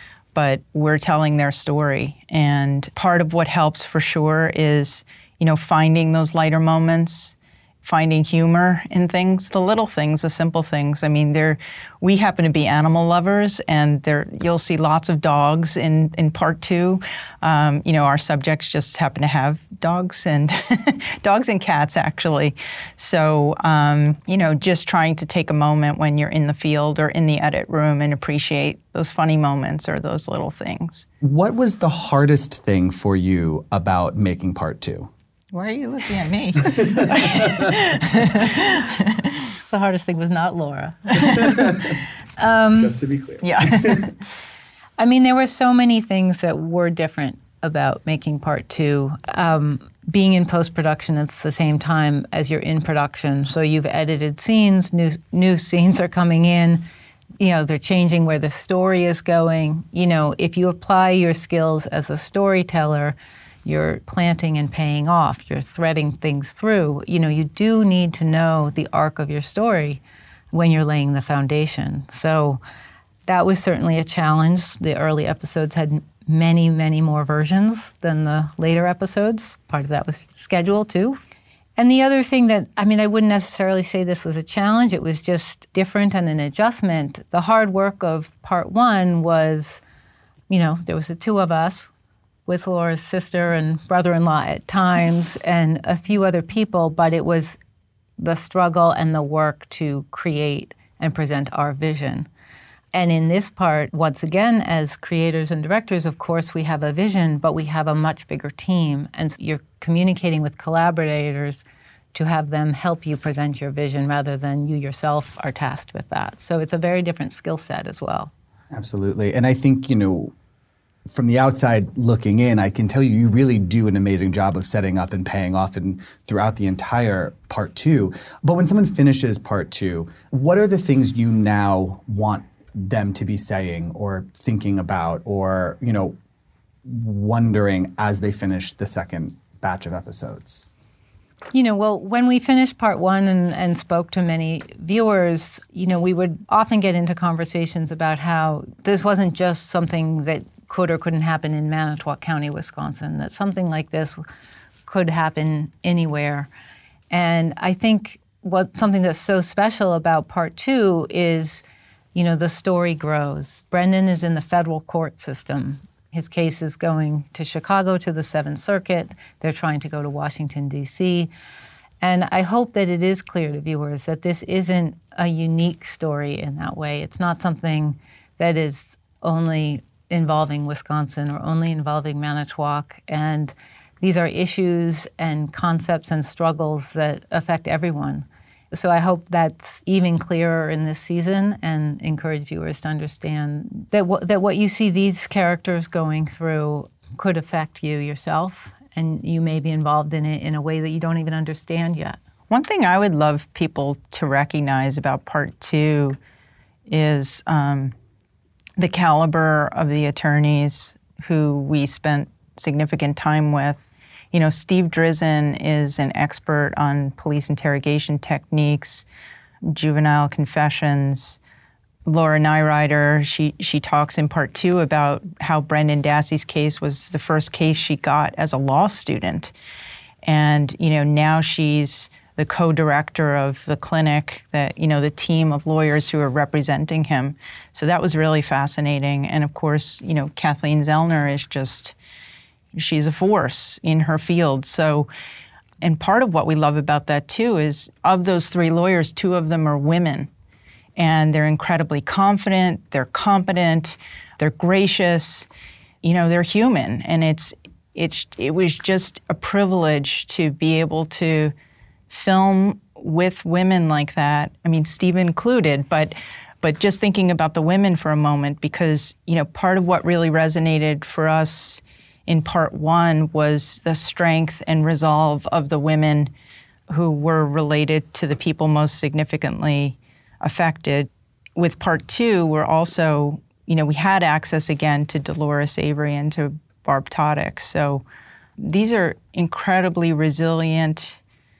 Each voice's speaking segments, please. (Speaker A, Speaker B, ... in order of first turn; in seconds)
Speaker A: 0.3-31.1, 35.5-39.3, 43.4-44.1, 202.5-206.2, 206.9-207.9, 208.8-219.1, 219.7-221.4, 222.1-229.5, 230.2-241.9, 242.7-245.1, 245.8-250.3, 251.0-255.5, 256.0-261.5, 262.1-276.3, 276.9-288.0, 288.6-291.2
Speaker B: 31.2-35.1, 36.6-37.7, 41.4-41.7, 42.7-44.1, 118.7-120.3, 121.1-136.2, 136.8-140.7
Speaker C: 39.7-41.8, 42.4-43.0, 45.0-56.9, 57.4-70.0, 70.5-72.6, 73.3-81.2, 81.8-89.8, 90.5-91.9, 92.5-97.6, 98.2-102.3, 102.9-111.6, 112.1-118.3, 141.5-154.2, 154.9-156.5, 157.1-161.6, 162.2-171.3, 172.0-202.2